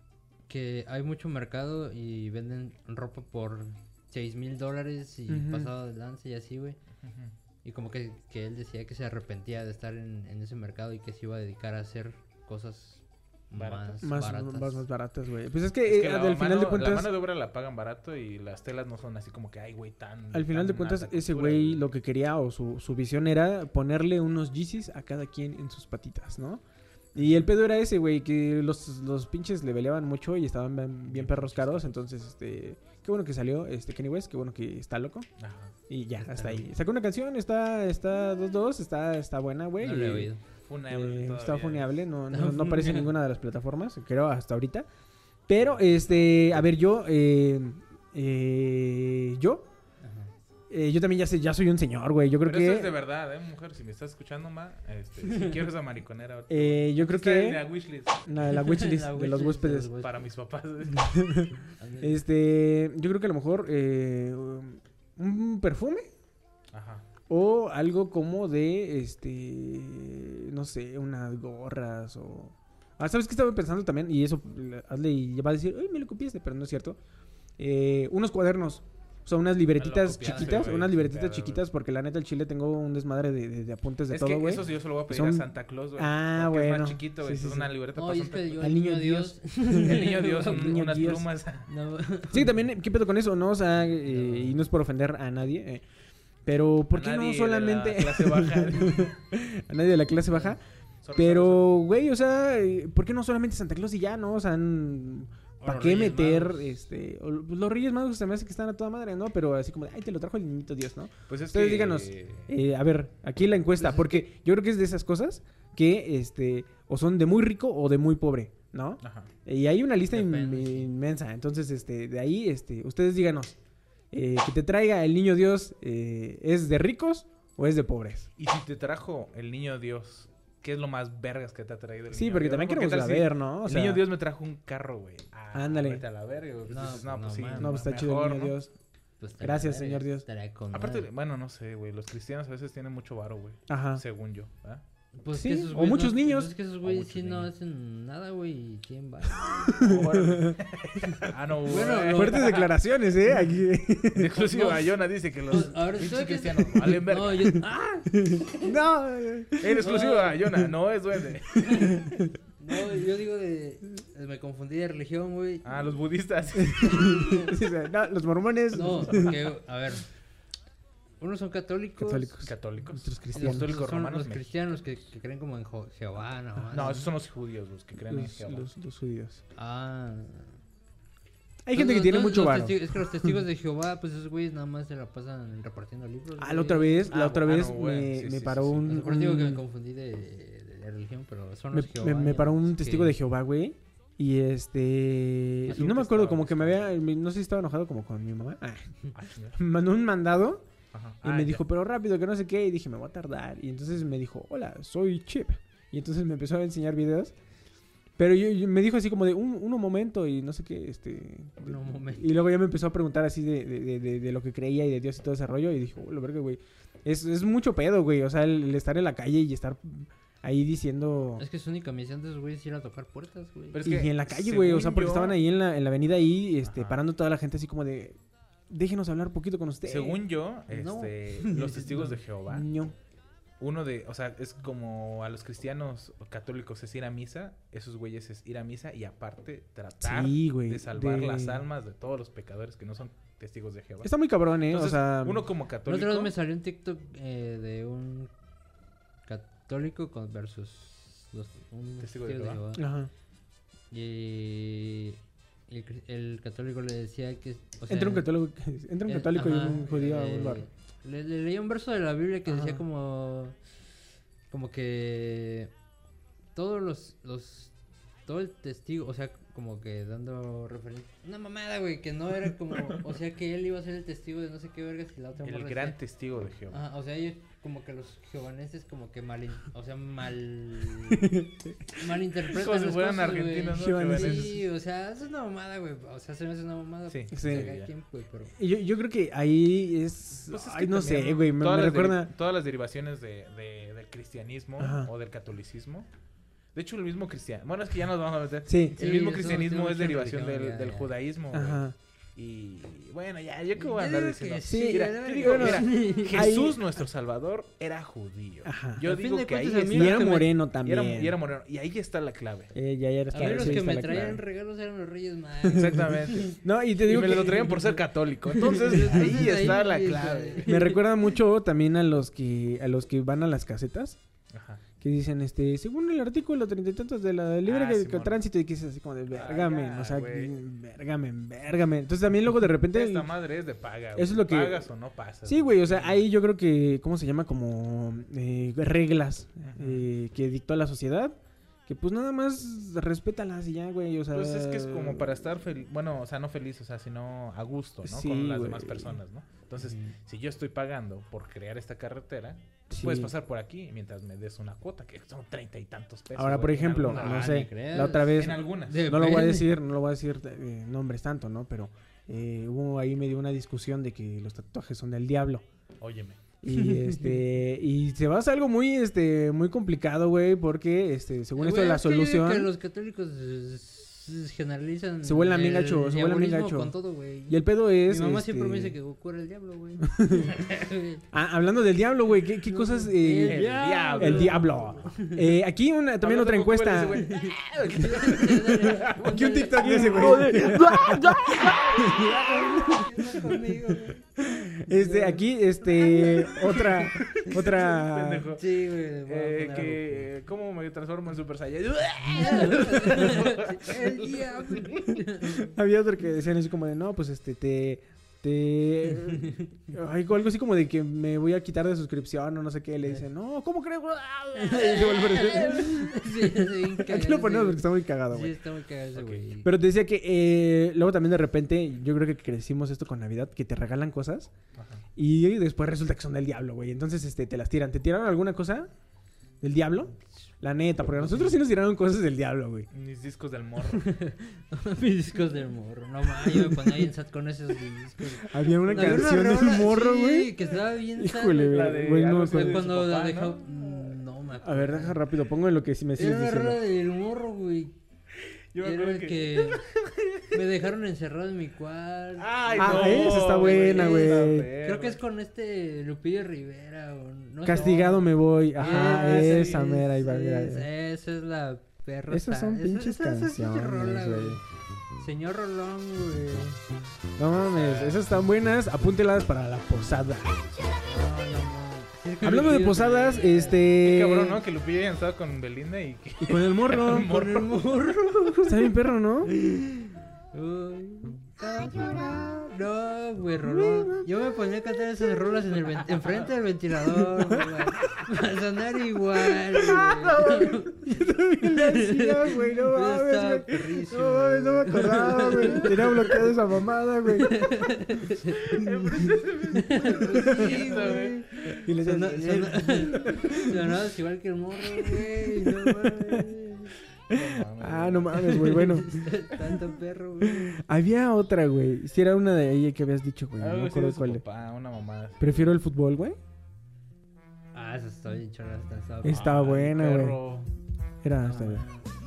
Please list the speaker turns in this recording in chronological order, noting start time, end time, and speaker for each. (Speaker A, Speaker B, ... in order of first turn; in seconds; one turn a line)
Speaker A: 0.5-6.8
Speaker B: 5.3-5.7
Speaker C: 7.0-7.3
Speaker A: 7.6-14.8
Speaker C: 13.6-14.0
Speaker B: 14.0-17.1
Speaker C: 15.8-21.8
Speaker B: 20.3-26.6
Speaker B: 27.1-35.3
Speaker C: 31.1-32.0
Speaker C: 35.4-35.7
Speaker B: 35.9-40.3
Speaker A: 36.2-36.7
Speaker A: 39.8-40.4
Speaker C: 40.5-42.0
Speaker B: 40.9-44.9
Speaker A: 42.3-43.1
Speaker B: 45.5-49.7
Speaker C: 45.6-46.5
Speaker A: 50.0-50.3
Speaker B: 50.7-53.0
Speaker C: 52.4-58.2
Speaker B: 56.5-57.7
Speaker B: 58.2-59.9
Speaker A: 58.5-60.2
Speaker C: 60.0-61.2
Speaker B: 60.9-66.1
Speaker A: 61.8-62.2
Speaker C: 66.7-67.0
Speaker B: 67.3-77.0
Speaker B: 77.6-87.7
Speaker C: 79.8-81.6
Speaker A: 80.3-80.8
Speaker C: 84.1-88.7
Speaker A: 88.0-90.8
Speaker B: 88.6-91.3
Speaker C: 89.7-91.7
Speaker A: 91.7-92.5
Speaker B: 92.3-95.8
Speaker A: 94.0-94.6
Speaker B: 96.4-100.6
Speaker C: 96.9-99.1
Speaker C: 101.0-101.7
Speaker B: 101.1-123.5
Speaker A: 105.6-106.7
Speaker C: 111.3-112.5
Speaker A: 113.8-114.2
Speaker C: 119.0-119.3
Speaker A: 120.1-120.9
Speaker B: 124.1-128.3
Speaker C: 128.4-138.6
Speaker B: 132.1-134.0
Speaker B: 135.5-136.0
Speaker A: 136.7-137.8
Speaker B: 137.6-138.7
Speaker A: 139.2-141.1
Speaker B: 139.4-140.2
Speaker C: 140.7-144.8
Speaker B: 143.7-144.0
Speaker A: 145.2-149.8
Speaker B: 145.3-146.5
Speaker C: 146.8-147.5
Speaker C: 149.6-152.7
Speaker B: 149.7-150.6
Speaker A: 151.7-152.6
Speaker B: 152.1-154.4
Speaker C: 154.1-157.6
Speaker A: 154.3-154.9
Speaker A: 155.5-158.7
Speaker B: 158.3-159.7
Speaker C: 159.6-162.0
Speaker A: 159.7-160.4
Speaker A: 161.6-162.1
Speaker A: 162.6-165.8
Speaker C: 165.6-167.2
Speaker B: 166.6-169.3
Speaker A: 166.9-167.5
Speaker A: 168.7-170.1
Speaker C: 169.1-169.4
Speaker A: 171.2-172.4
Speaker B: 172.0-173.7
Speaker C: 172.4-174.5
Speaker A: 173.3-177.1
Speaker C: 176.7-178.7
Speaker B: 178.1-179.4
Speaker A: 179.5-180.6
Speaker B: 181.6-183.4
Speaker A: 181.7-187.1
Speaker B: 186.4-189.6
Speaker C: 187.1-189.0
Speaker A: 188.9-193.2
Speaker B: 191.7-200.6
Speaker C: 195.7-196.7
Speaker C: 199.1-199.6
Speaker C: 200.9-201.6
Speaker B: 201.2-207.3
Speaker B: 208.2-221.4
Speaker A: 211.6-212.3
Speaker A: 221.4-223.9
Speaker C: 223.7-225.4
Speaker B: 223.8-228.2
Speaker C: 226.6-227.0
Speaker B: 228.7-230.2
Speaker C: 229.8-232.7
Speaker A: 230.7-232.2
Speaker B: 232.5-232.9
Speaker C: 233.6-244.1
Speaker B: 240.0-241.6
Speaker B: 244.0-245.5
Speaker C: 244.7-246.3
Speaker A: 245.8-248.3
Speaker A: 249.2-252.9
Speaker C: 252.0-252.6
Speaker B: 252.7-253.1
Speaker A: 253.9-258.3
Speaker B: 257.9-260.6
Speaker A: 259.1-263.6
Speaker B: 262.4-262.8
Speaker A: 264.5-265.7
Speaker A: 266.5-267.7
Speaker A: 268.2-276.0
Speaker C: 275.4-276.8
Speaker A: 276.7-281.4
Speaker B: 281.2-281.7
Speaker A: 281.9-288.5
Speaker C: 282.4-284.5
Speaker B: 283.7-284.6
Speaker C: 287.1-287.9
Speaker B: 287.3-287.8
Speaker B: 288.6-292.3
Speaker C: 290.4-296.1
Speaker B: 294.8-295.1
Speaker C: 296.7-312.7
Speaker B: 298.7-299.0
Speaker A: 299.0-301.1
Speaker B: 301.5-301.9
Speaker A: 303.8-306.6
Speaker B: 304.6-306.8
Speaker B: 308.6-309.0
Speaker A: 309.0-310.5
Speaker B: 309.9-311.4
Speaker B: 312.7-314.4
Speaker A: 313.3-316.6
Speaker C: 313.4-314.3
Speaker B: 315.6-318.0
Speaker C: 315.7-320.8
Speaker A: 318.5-321.0
Speaker B: 318.8-319.7
Speaker B: 320.6-324.2
Speaker C: 324.5-324.8
Speaker B: 325.0-333.3
Speaker C: 327.6-328.4
Speaker C: 329.3-330.5
Speaker C: 332.9-336.2
Speaker B: 334.1-334.8
Speaker B: 335.4-345.4
Speaker C: 339.6-340.1
Speaker C: 344.3-357.7
Speaker B: 348.0-349.2
Speaker A: 349.8-350.2
Speaker B: 352.9-353.3
Speaker B: 356.3-365.6
Speaker A: 357.0-359.7
Speaker C: 358.3-359.3
Speaker C: 366.0-366.4
Speaker B: 366.6-372.7
Speaker A: 366.7-367.4
Speaker A: 371.6-381.2
Speaker B: 375.2-376.9
Speaker B: 377.5-379.0
Speaker B: 380.0-380.6
Speaker B: 381.3-387.3
Speaker A: 382.7-385.5
Speaker C: 383.4-384.9
Speaker C: 386.2-392.8
Speaker A: 387.3-394.2
Speaker B: 389.0-393.8
Speaker B: 394.4-398.5
Speaker A: 394.9-397.5
Speaker C: 397.4-405.1
Speaker A: 398.5-400.3
Speaker A: 402.3-405.7
Speaker B: 405.6-418.6
Speaker A: 414.6-419.7
Speaker C: 419.1-419.4
Speaker B: 419.6-424.5
Speaker C: 424.7-425.0
Speaker B: 425.1-428.9
Speaker B: 429.6-432.9
Speaker C: 432.9-434.0
Speaker A: 433.9-445.2
Speaker B: 438.5-440.5
Speaker C: 438.9-439.3
Speaker B: 441.1-442.8
Speaker C: 441.7-444.2
Speaker B: 444.6-446.8
Speaker A: 446.1-447.9
Speaker C: 448.7-450.6
Speaker A: 448.8-449.8
Speaker A: 450.5-464.6
Speaker C: 452.4-455.2
Speaker B: 452.8-454.7
Speaker B: 457.6-460.9
Speaker C: 458.9-459.9
Speaker B: 462.3-464.6
Speaker A: 465.2-466.8
Speaker B: 467.4-470.6
Speaker C: 467.7-468.3
Speaker A: 471.0-473.8
Speaker B: 472.4-474.6
Speaker C: 473.9-477.8
Speaker B: 476.4-477.4
Speaker A: 477.1-478.9
Speaker B: 478.6-479.5
Speaker A: 479.5-496.5
Speaker B: 483.6-484.3
Speaker B: 487.2-487.7
Speaker B: 489.7-497.8
Speaker A: 497.4-498.8
Speaker C: 498.5-501.8
Speaker B: 498.8-499.4
Speaker A: 499.7-506.9
Speaker B: 501.8-503.9
Speaker B: 504.9-506.5
Speaker C: 507.3-508.6
Speaker B: 507.3-509.7
Speaker A: 508.4-510.8
Speaker B: 510.4-514.4
Speaker C: 513.6-515.8
Speaker B: 515.4-516.4
Speaker A: 517.7-519.6
Speaker B: 519.2-520.4
Speaker C: 519.2-520.7
Speaker B: 521.2-521.8
Speaker A: 521.4-522.1